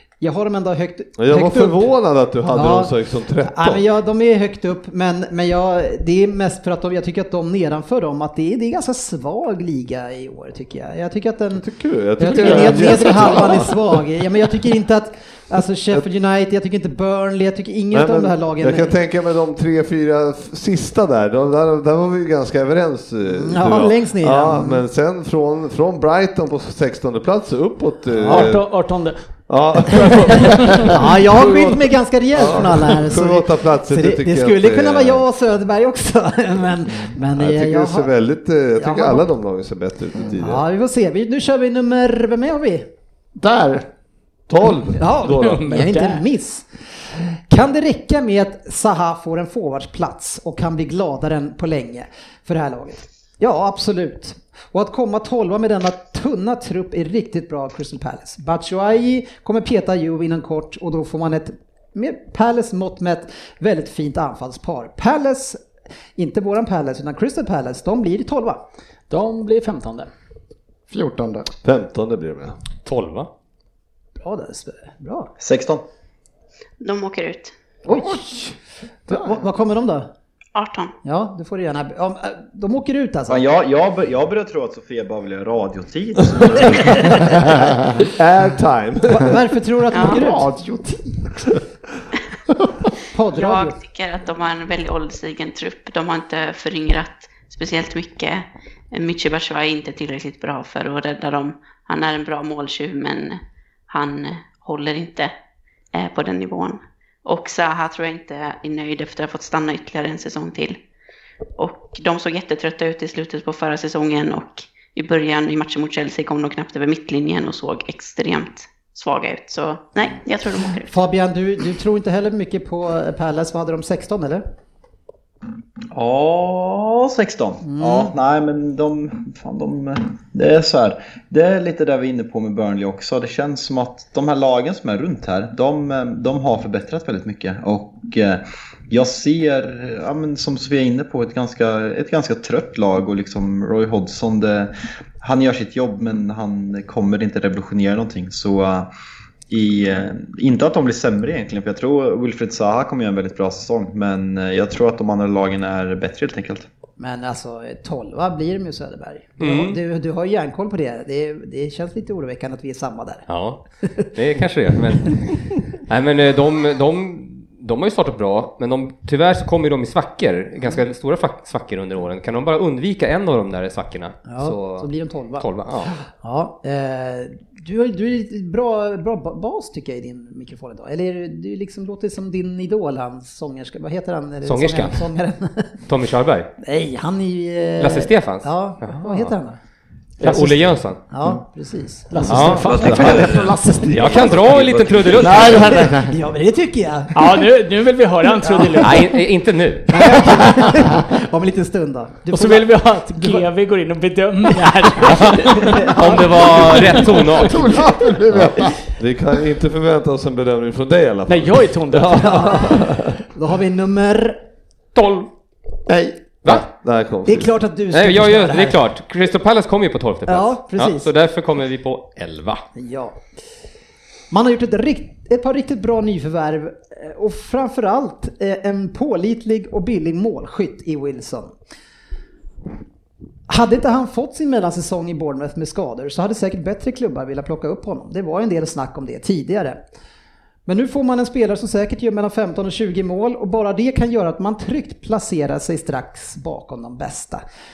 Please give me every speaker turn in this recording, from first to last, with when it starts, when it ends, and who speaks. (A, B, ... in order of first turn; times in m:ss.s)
0:00.2-0:01.9 A
0:01.2-0:03.8 B
0:02.5-0:02.9 A
0:03.4-0:11.7 A
0:11.6-0:13.9 B
0:12.2-0:19.0 A
0:17.9-0:28.7 B
0:23.4-0:24.8 A
0:28.1-0:28.5 A
0:28.3-0:29.2 C
0:29.5-0:31.8 B
0:29.9-0:31.0 C
0:30.8-0:38.1 A
0:32.3-0:35.2 B
0:37.4-0:40.6 B
0:38.8-0:39.3 A
0:40.3-0:42.9 A
0:43.4-0:43.8 D
0:44.5-0:45.7 B
0:45.0-0:46.7 A
0:45.2-0:46.2 C
0:47.2-1:05.6 A
1:06.2-1:08.6 A
1:09.1-1:10.1 C
1:10.9-1:11.5 D
1:11.6-1:12.6 B
1:12.8-1:13.3 E
1:14.2-1:15.3 A
1:15.4-1:15.8 F
1:16.8-1:17.5 G
1:17.9-1:18.5 A
1:19.1-1:20.1 A
1:20.6-1:20.9 G
1:21.0-1:23.5 A
1:23.3-1:27.4 F
1:28.0-1:29.4 B
1:29.1-1:30.5 A
1:29.9-1:30.2 G
1:30.0-1:31.5 D
1:33.1-1:33.8 A
1:33.3-1:45.3 G
1:45.9-1:50.8 G
1:51.6-2:00.9 G
2:00.9-2:04.4 A
2:05.9-2:28.9 F
2:07.6-2:08.1 A
2:29.5-2:36.7 F
2:37.0-2:43.2 A
2:39.4-2:39.8 E
2:43.3-2:43.6 E
2:44.1-2:54.9 E
2:54.3-3:05.8 A
2:55.4-2:55.9 E
3:04.4-3:05.0 E
3:05.9-3:06.5 E
3:06.6-3:09.6 A
3:07.8-3:09.3 E
3:10.2-3:10.6 C
3:10.2-3:11.0 E
3:11.1-3:14.2 A
3:12.1-3:13.4 C
3:12.2-3:13.3 E
3:12.8-3:15.5 B
3:13.9-3:15.9 E
3:15.2-3:17.4 A
3:15.2-3:16.1 D
3:17.1-3:19.0 C
3:18.4-3:19.1 A
3:18.8-3:20.2 E
3:19.9-3:23.4 A
3:22.3-3:25.8 C
3:25.0-3:27.8 E
3:25.1-3:27.2 A
3:27.4-3:28.8 D
3:28.3-3:33.1 B
3:31.3-3:32.7 C
3:32.4-3:34.4 A
3:35.0-3:35.3 E
3:35.9-3:36.2 D
3:36.5-3:37.5 B
3:37.3-3:38.8 A
3:37.9-3:42.6 E
3:40.3-3:41.1 A
3:42.8-3:43.2 A
3:44.3-3:51.5 A
3:53.5-3:59.8 A
4:00.7-4:07.4 A